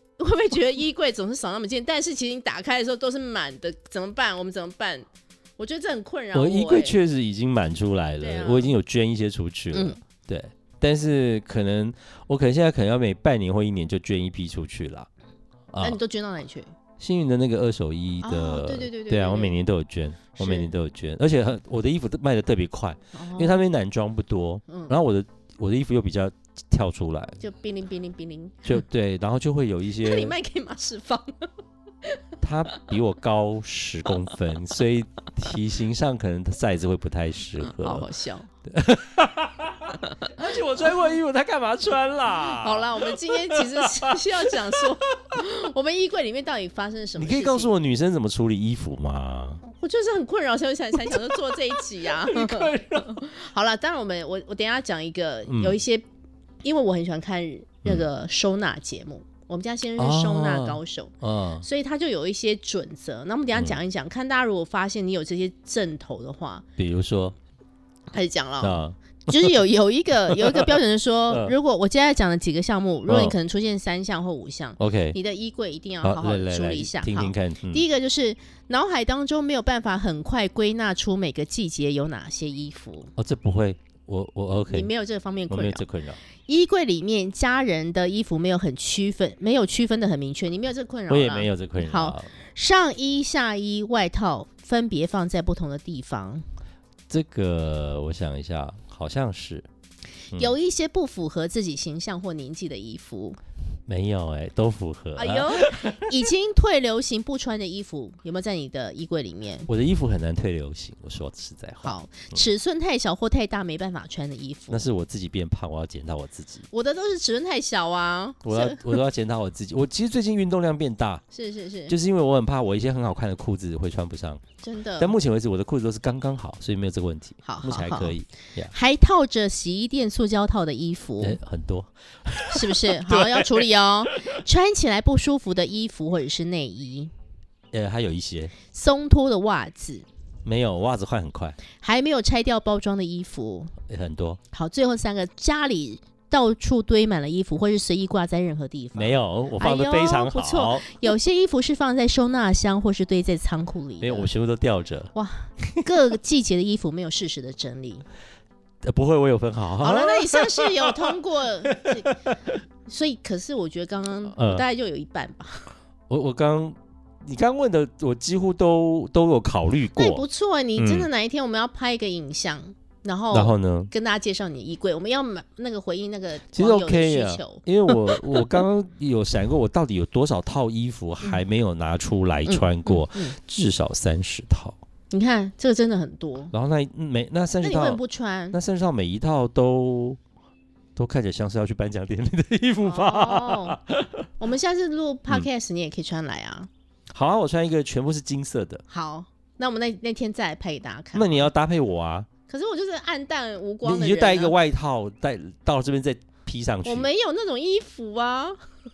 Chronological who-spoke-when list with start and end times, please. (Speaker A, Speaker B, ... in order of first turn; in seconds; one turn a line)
Speaker A: 0.2-7.0
Speaker B: 6.3-15.1
Speaker A: 8.2-8.7
Speaker A: 9.7-10.0
Speaker B: 15.7-16.0
Speaker A: 15.8-16.7
Speaker B: 17.0-27.4
Speaker A: 18.2-19.5
Speaker A: 20.4-20.7
Speaker A: 23.1-23.6
Speaker A: 24.7-24.9
Speaker A: 27.4-28.8
Speaker B: 28.6-30.3
Speaker A: 30.0-31.5
Speaker B: 32.4-38.0
Speaker A: 37.6-38.5
Speaker B: 38.6-44.8
Speaker A: 42.5-47.7
Speaker B: 47.1-49.6
Speaker A: 49.6-56.0
Speaker B: 51.0-53.2
Speaker B: 55.5-55.8
Speaker A: 56.6-66.6
Speaker B: 60.0-61.6
Speaker B: 63.5-63.8
Speaker B: 66.8-67.3
Speaker A: 68.1-83.1
Speaker B: 68.6-69.5
Speaker B: 70.3-70.8
Speaker B: 71.3-71.5
Speaker B: 73.1-73.4
Speaker B: 74.8-75.2
Speaker B: 76.0-77.8
Speaker B: 83.2-84.9
Speaker A: 84.7-85.8
Speaker B: 85.5-86.2
Speaker A: 86.4-96.4
Speaker B: 91.1-92.3
Speaker B: 97.1-99.7
Speaker A: 100.3-103.4
Speaker B: 103.9-106.3
Speaker A: 105.2-109.7
Speaker B: 109.7-112.4
Speaker A: 111.8-114.8
Speaker B: 114.7-116.7
Speaker A: 116.7-119.0
Speaker B: 118.4-121.2
Speaker A: 121.3-121.9
Speaker B: 121.9-124.4
Speaker A: 124.6-125.1
Speaker B: 125.0-128.7
Speaker A: 127.4-128.2
Speaker A: 128.7-131.4
Speaker B: 131.2-133.7
Speaker A: 132.5-137.1
Speaker B: 137.7-138.5
Speaker A: 138.7-140.1
Speaker B: 140.4-141.6
Speaker A: 141.8-143.7
Speaker B: 143.9-144.4
Speaker A: 144.5-154.3
Speaker B: 148.9-150.9
Speaker B: 154.0-155.1
Speaker A: 155.1-158.1
Speaker B: 158.8-160.9
Speaker A: 159.8-162.1
Speaker B: 161.8-162.5
Speaker A: 162.8-165.7
Speaker B: 164.3-164.6
Speaker B: 166.1-170.2
Speaker A: 169.9-178.5
Speaker B: 170.8-171.1
Speaker B: 173.3-173.9
Speaker B: 176.5-184.8
Speaker A: 182.4-183.3
Speaker A: 185.1-186.5
Speaker B: 186.5-188.0
Speaker A: 187.6-188.6
Speaker B: 188.5-190.2
Speaker B: 190.9-194.3
Speaker A: 192.8-193.8
Speaker A: 194.4-196.7
Speaker B: 197.1-198.8
Speaker A: 198.9-201.5
Speaker B: 201.1-202.3
Speaker A: 202.5-204.5
Speaker B: 203.8-207.1
Speaker A: 206.8-208.6